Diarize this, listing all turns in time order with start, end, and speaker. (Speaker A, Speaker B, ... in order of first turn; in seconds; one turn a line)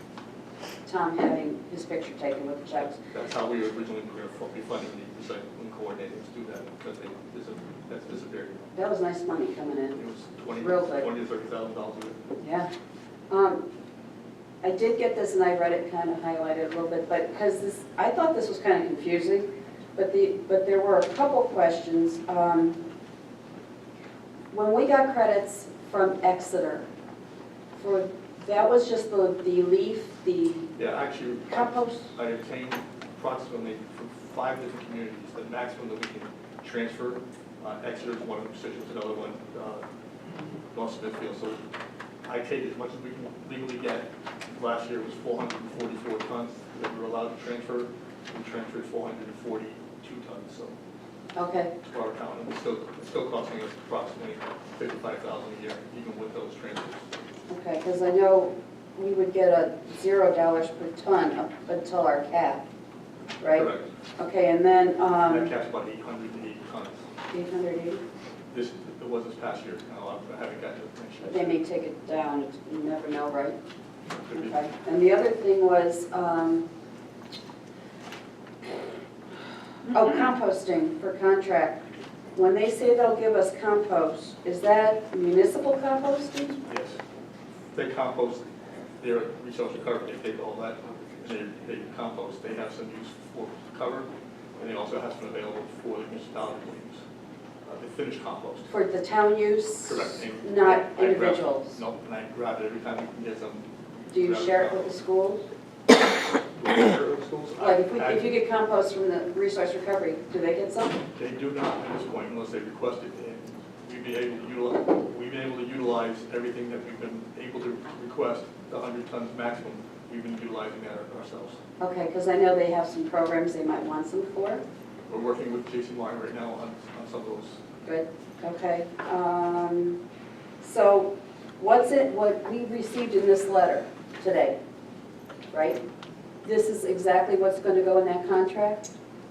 Speaker A: 0.8-3.0
Speaker B: 3.1-8.7
Speaker A: 8.8-10.0
Speaker B: 9.9-12.2
Speaker A: 10.6-11.1
Speaker A: 12.4-12.7
Speaker A: 13.3-13.6
Speaker A: 14.6-22.8
Speaker A: 24.5-26.9
Speaker A: 27.8-30.7
Speaker B: 30.8-39.9
Speaker A: 31.5-32.1
Speaker B: 40.7-41.6
Speaker B: 42.2-50.8
Speaker A: 51.4-51.7
Speaker B: 51.8-57.0
Speaker A: 57.5-62.6
Speaker A: 63.4-65.5
Speaker B: 63.5-63.9
Speaker B: 65.3-67.0
Speaker A: 67.3-68.0
Speaker B: 68.5-71.6
Speaker A: 71.2-73.6
Speaker B: 74.1-74.6
Speaker A: 74.3-76.7
Speaker A: 79.9-81.8
Speaker A: 82.3-86.6
Speaker B: 86.7-87.0
Speaker B: 87.7-88.5
Speaker B: 89.0-97.0
Speaker B: 97.6-98.7
Speaker A: 98.7-101.8
Speaker B: 99.8-105.0
Speaker A: 104.1-105.4
Speaker B: 106.6-108.3
Speaker A: 107.6-111.0
Speaker B: 111.1-121.6
Speaker A: 121.8-124.6
Speaker B: 125.1-127.6
Speaker A: 127.8-130.0
Speaker A: 130.6-134.6
Speaker A: 135.5-135.8
Speaker A: 136.4-138.9